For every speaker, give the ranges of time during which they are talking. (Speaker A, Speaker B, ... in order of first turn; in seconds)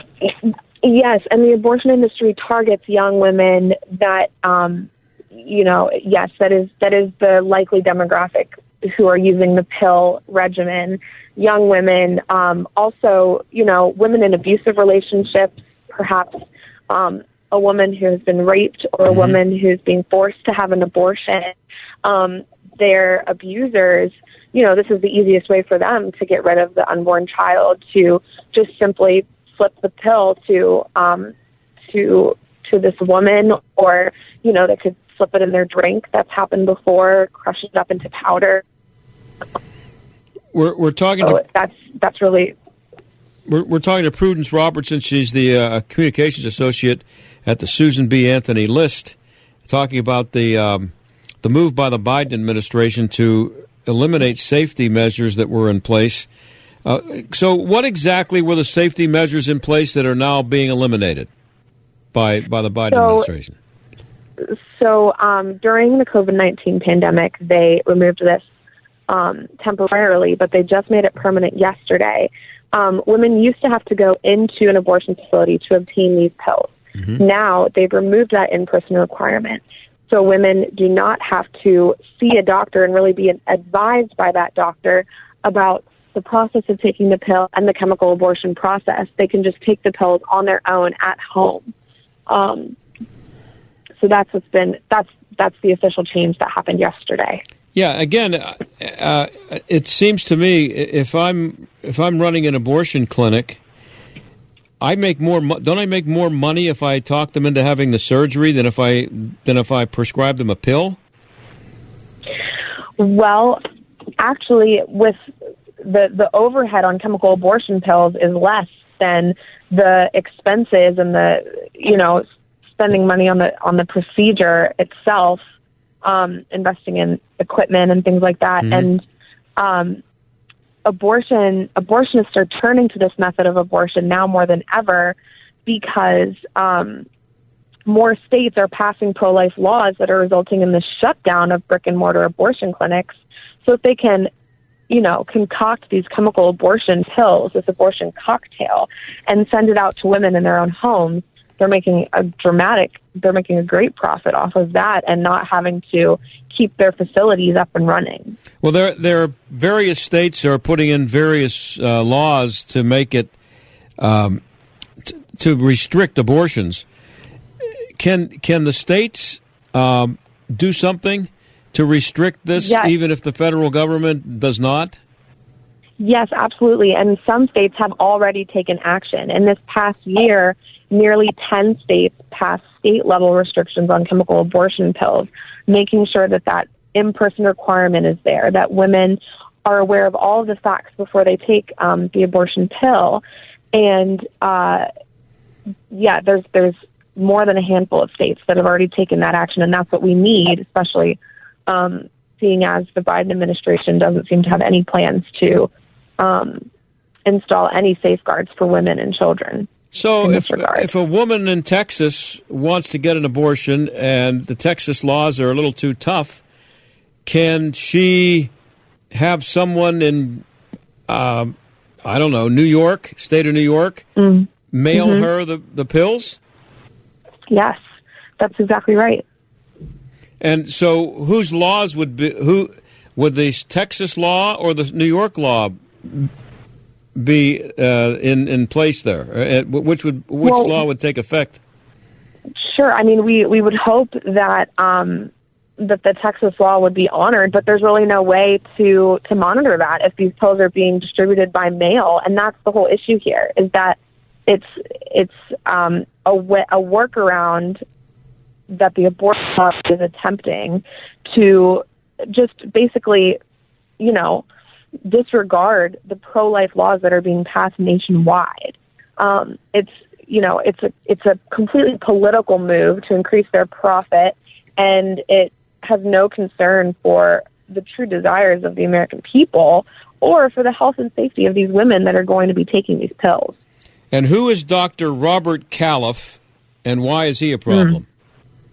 Speaker A: 0.2-21.5, 22.0-31.3, 31.9-38.6, 41.2-42.5, 62.9-63.3, 64.7-68.4, 69.1-91.7, 92.3-92.7, 94.0-97.4, 113.0-113.6, 114.2-115.2, 115.8-125.4, 126.0-129.0, 129.6-130.0, 130.8-137.1, 137.9-144.3, 144.9-158.3, 172.6-172.9, 176.0-194.9, 195.9-206.7, 207.2-209.7, 210.2-210.9, 224.2-225.3, 227.5-227.8, 228.4-229.2, 240.4-240.8, 242.6-257.8, 258.7-263.4, 264.0-264.4, 265.1-283.6, 287.7-288.0
Speaker B: 19.1-19.4, 40.5-41.4, 43.5-50.9, 51.4-56.3, 56.8-61.3, 62.1-63.5, 97.7-103.6, 104.8-111.0, 128.6-128.9, 158.6-163.3, 164.0-164.4, 165.3-166.8, 168.0-175.0, 209.9-216.4, 217.2-218.5, 219.1-220.4, 221.1-224.1, 224.7-226.4, 230.4-236.3, 237.2-241.6, 284.1-288.0